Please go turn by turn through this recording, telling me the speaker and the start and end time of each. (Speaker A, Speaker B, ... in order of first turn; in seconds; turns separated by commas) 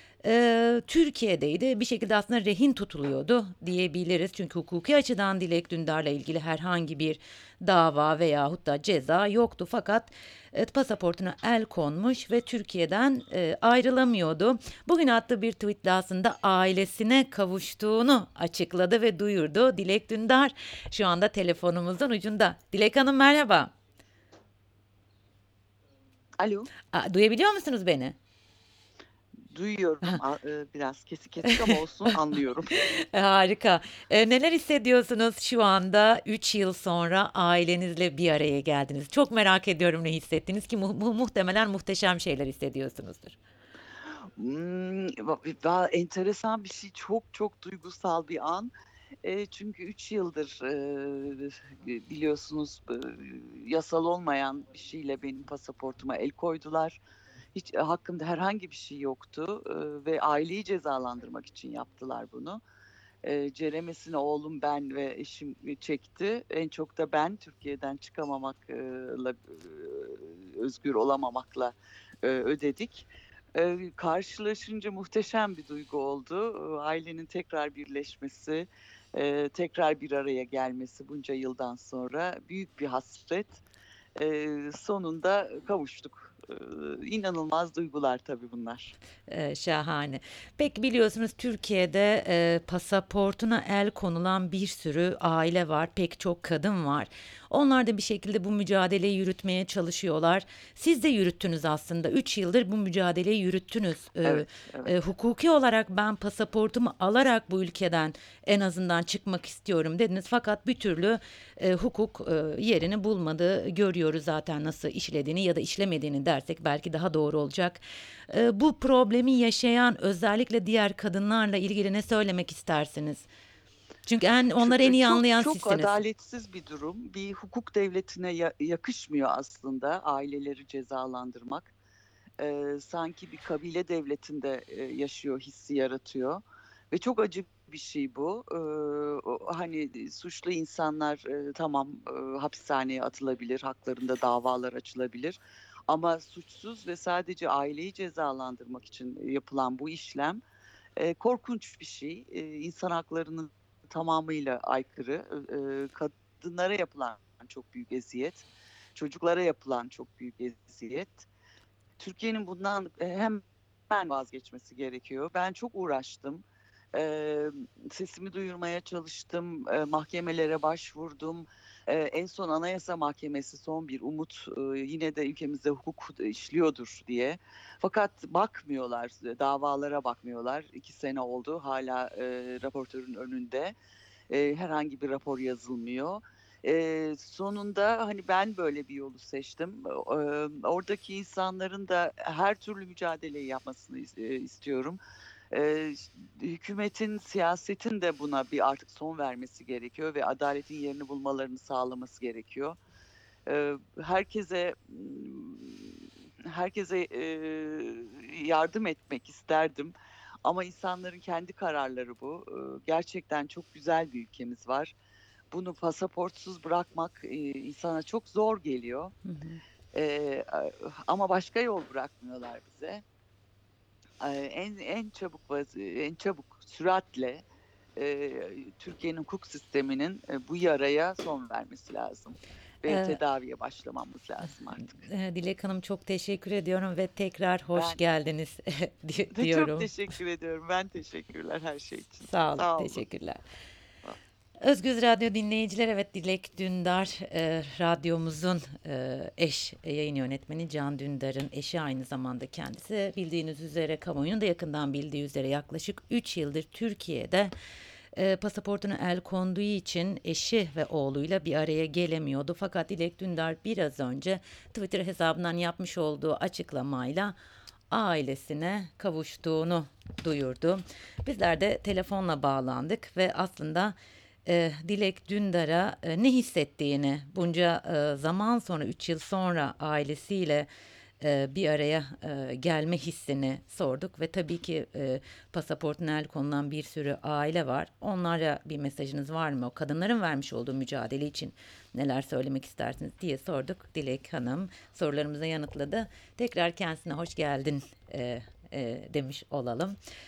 Speaker A: 0.2-23.7, Speaker B: 26.4-26.7, Speaker A: 26.9-28.2, Speaker B: 29.5-32.8, Speaker A: 32.8-43.4, Speaker B: 44.2-48.7, Speaker B: 49.2-57.0, Speaker B: 57.5-62.6, Speaker B: 63.2-83.6, Speaker B: 84.2-88.9, Speaker A: 89.3-123.3, Speaker B: 104.2-104.9, Speaker A: 124.0-126.0, Speaker B: 124.6-131.7, Speaker B: 132.4-150.4, Speaker B: 151.0-161.3, Speaker B: 162.0-183.7, Speaker B: 184.3-195.0, Speaker B: 195.5-202.8, Speaker B: 203.4-214.9, Speaker B: 215.5-219.1, Speaker A: 219.2-219.6, Speaker B: 219.9-223.0, Speaker B: 224.2-227.4, Speaker B: 227.9-235.1, Speaker A: 232.8-233.2, Speaker A: 234.8-239.9, Speaker B: 239.3-243.0, Speaker A: 242.2-243.4, Speaker A: 244.6-257.5, Speaker A: 258.1-267.3, Speaker A: 267.9-273.9, Speaker A: 274.4-280.7, Speaker A: 281.2-299.9